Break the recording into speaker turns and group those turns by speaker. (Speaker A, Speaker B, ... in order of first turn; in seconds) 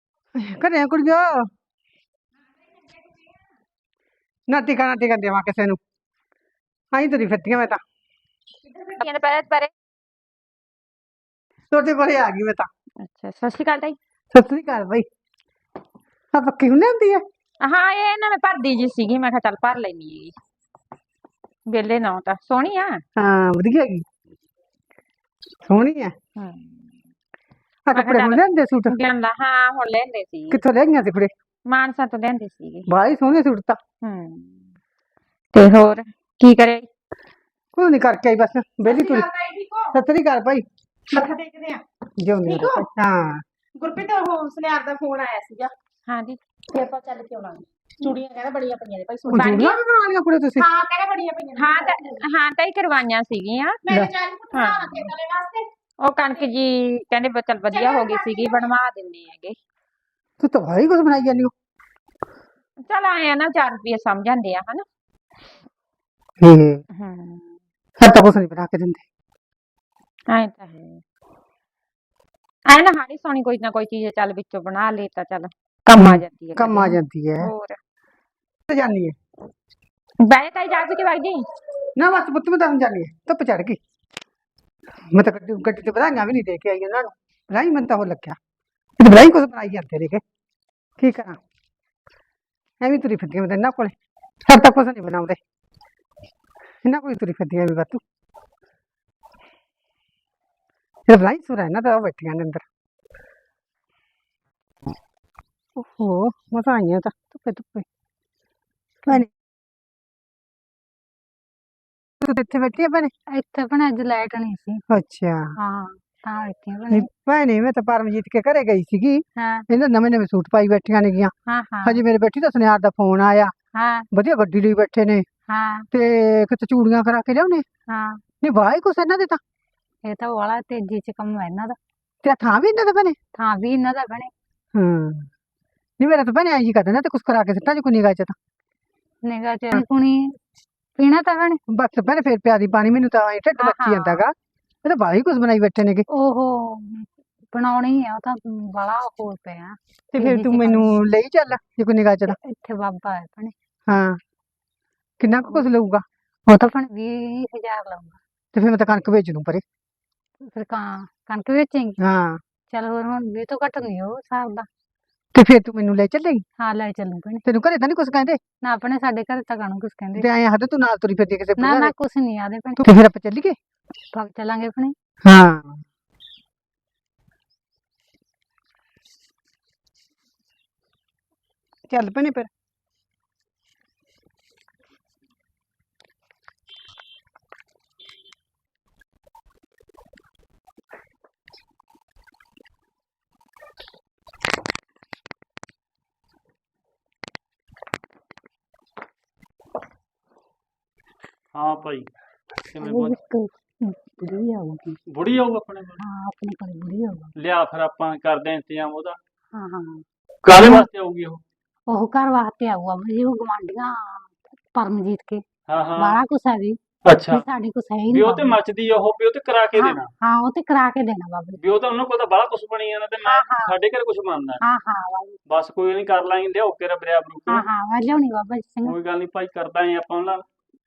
Speaker A: 0.3-1.5, 4.5-5.8, 6.9-7.8, 11.7-12.7, 14.3-15.1, 16.3-17.2, 23.1-24.0, 25.6-26.1, 27.9-28.9, 30.5-31.3, 32.9-33.8, 37.7-39.3, 39.9-40.6, 42.2-43.4, 49.3-50.6, 60.4-61.5, 66.4-66.8, 68.0-69.0, 75.9-77.5, 78.7-79.2, 82.0-83.8, 85.1-88.4, 89.0-90.2, 91.0-91.4, 92.8-93.9, 94.5-95.4, 96.8-98.0, 101.1-102.6, 105.8-107.8, 112.2-113.1, 114.9-115.5, 116.9-123.5, 124.1-125.2, 125.9-127.6, 128.4-129.4, 132.2-133.2, 134.7-135.3, 136.0-138.3, 141.7-144.3, 144.8-146.1, 150.1-152.4, 153.9-154.2, 155.2-156.0, 158.5-159.6, 162.0-162.4, 165.3-166.4, 167.4-168.4, 170.1-171.9, 172.8-173.6, 175.2-175.8, 181.9-182.5, 204.1-204.9
Speaker B: 8.8-9.7, 13.0-14.0, 17.6-20.3, 21.7-23.0, 26.4-26.9, 27.9-30.6, 31.7-32.9, 34.0-34.8, 35.5-36.9, 46.1-46.4, 49.4-49.7, 52.2-53.8, 56.0-59.6, 62.8-64.8, 67.0-67.6, 70.3-71.0, 72.7-77.8, 80.2-81.4
Speaker C: 38.8-39.9, 41.1-41.8, 42.5-42.9, 43.8-45.7, 46.7-49.5, 50.6-52.2, 53.8-55.7, 57.7-58.6
Speaker D: 113.3-114.8, 115.6-117.1, 119.4-119.7, 121.5-122.0, 123.7-124.1, 125.5-125.8, 127.9-128.2, 130.1-131.8, 133.3-134.3, 139.2-140.3, 141.0-141.6, 143.6-144.2, 146.1-150.9, 152.3-153.5, 155.4-155.7, 156.5-158.2, 160.4-162.0, 162.7-164.7, 166.6-167.4, 168.6-170.2, 171.6-172.8, 174.1-174.9, 202.8-203.5, 206.0-207.3, 209.5-210.9, 211.9-215.4, 216.0-216.8, 217.3-218.6, 219.7-221.6, 223.2-223.7, 224.6-225.4, 227.5-228.9
Speaker E: 201.5-202.1, 202.7-203.2, 205.1-206.0, 207.4-209.2, 210.4-211.4, 215.7-216.2, 217.1-217.4, 218.1-220.1, 221.6-224.6, 225.5-227.7, 228.8-230.4